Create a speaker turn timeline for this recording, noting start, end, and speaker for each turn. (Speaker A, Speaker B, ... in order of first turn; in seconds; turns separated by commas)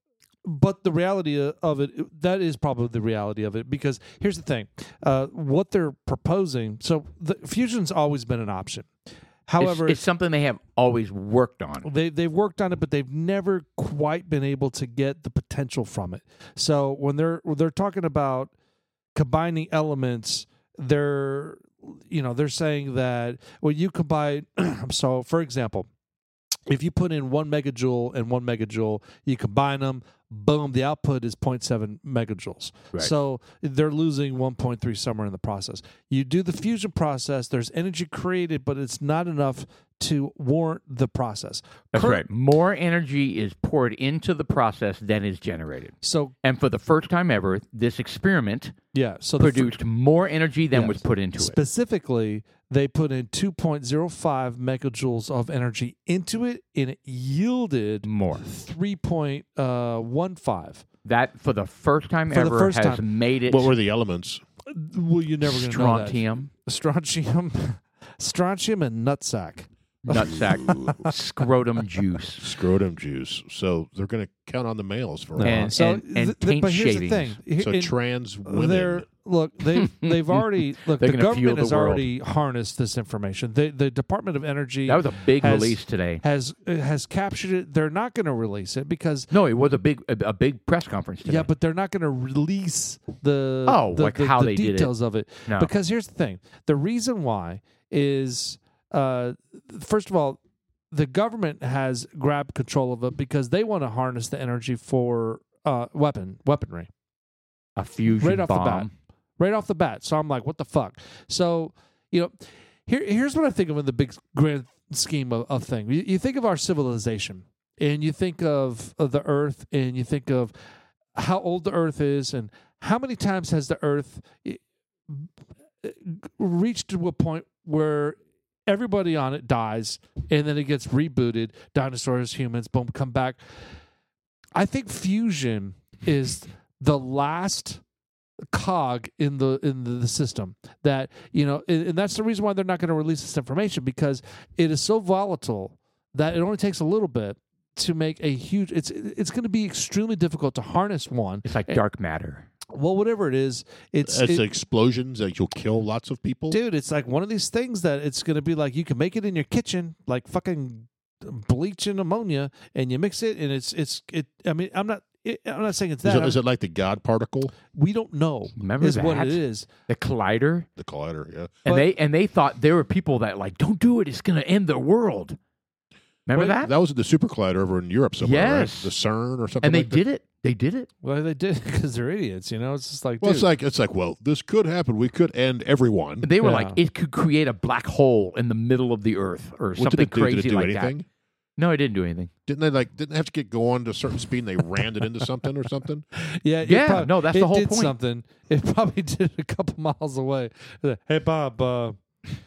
Speaker A: 0.5-8.9, Speaker A: 9.5-10.0, Speaker B: 9.6-11.9, Speaker A: 11.8-18.5, Speaker A: 19.1-25.9, Speaker A: 26.7-42.2, Speaker B: 41.9-48.8, Speaker A: 46.0-46.3, Speaker A: 48.9-49.8, Speaker B: 49.4-51.6, Speaker A: 50.7-60.8, Speaker B: 58.0-58.4, Speaker B: 61.0-63.7, Speaker A: 62.3-63.0, Speaker C: 63.5-64.4, Speaker A: 64.7-71.1, Speaker B: 65.4-66.5, Speaker B: 70.0-72.5, Speaker C: 70.2-71.0, Speaker C: 72.4-75.7, Speaker A: 75.4-77.9, Speaker B: 75.4-77.4, Speaker C: 77.6-79.1, Speaker A: 78.5-89.3, Speaker B: 79.7-82.1, Speaker B: 84.9-86.2, Speaker B: 89.3-91.5, Speaker A: 91.2-100.4, Speaker B: 93.7-94.9, Speaker A: 100.9-106.9, Speaker B: 107.8-108.9, Speaker A: 108.2-120.5, Speaker A: 121.2-125.3, Speaker A: 125.8-133.4, Speaker A: 134.6-137.8, Speaker A: 138.5-151.8, Speaker B: 151.4-152.5, Speaker A: 152.7-154.5, Speaker C: 154.1-156.6, Speaker A: 156.5-166.4, Speaker C: 166.1-167.5, Speaker A: 167.7-169.7, Speaker B: 168.6-170.7, Speaker C: 170.8-171.6, Speaker B: 171.7-175.4, Speaker B: 176.3-176.7, Speaker C: 176.4-180.0, Speaker B: 178.2-178.9, Speaker B: 179.6-180.9, Speaker A: 181.0-183.5, Speaker C: 183.2-186.3, Speaker B: 186.2-190.9, Speaker A: 186.4-186.8, Speaker C: 189.8-191.1, Speaker B: 191.6-192.3, Speaker C: 192.5-196.1, Speaker A: 196.4-202.0, Speaker B: 196.6-197.9